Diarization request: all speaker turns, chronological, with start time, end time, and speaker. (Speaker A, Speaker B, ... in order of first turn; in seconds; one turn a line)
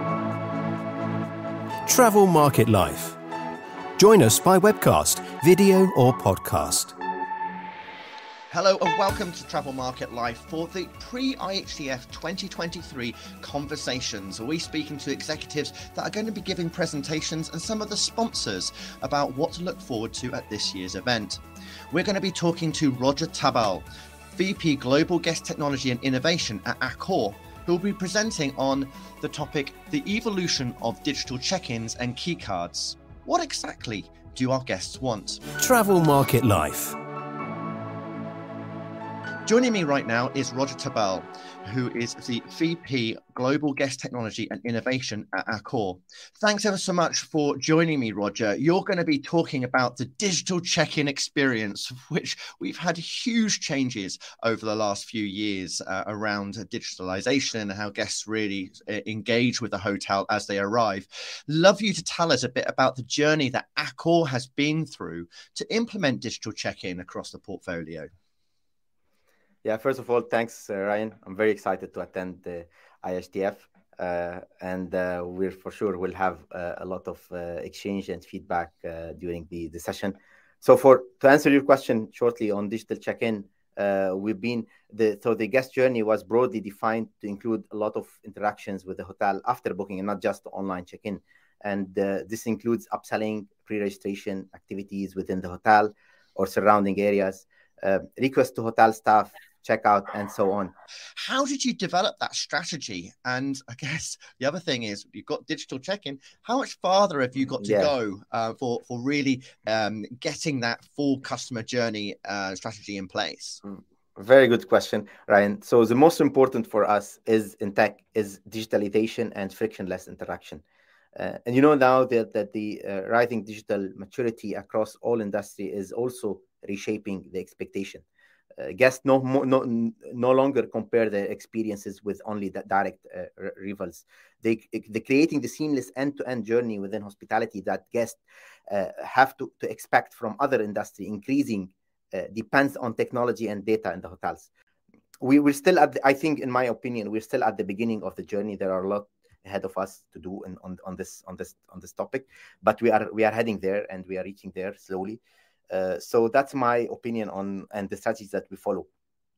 Speaker A: 1.8-3.2
Speaker A: 4.0-7.0
Speaker B: 8.5-35.4
Speaker A: 35.5-37.0
Speaker B: 39.5-68.1
Speaker C: 69.6-100.7
Speaker B: 101.2-113.6
Speaker C: 107.6-107.9
Speaker C: 113.6-120.6
Speaker C: 121.2-128.0
Speaker C: 128.6-144.5
Speaker C: 145.2-158.9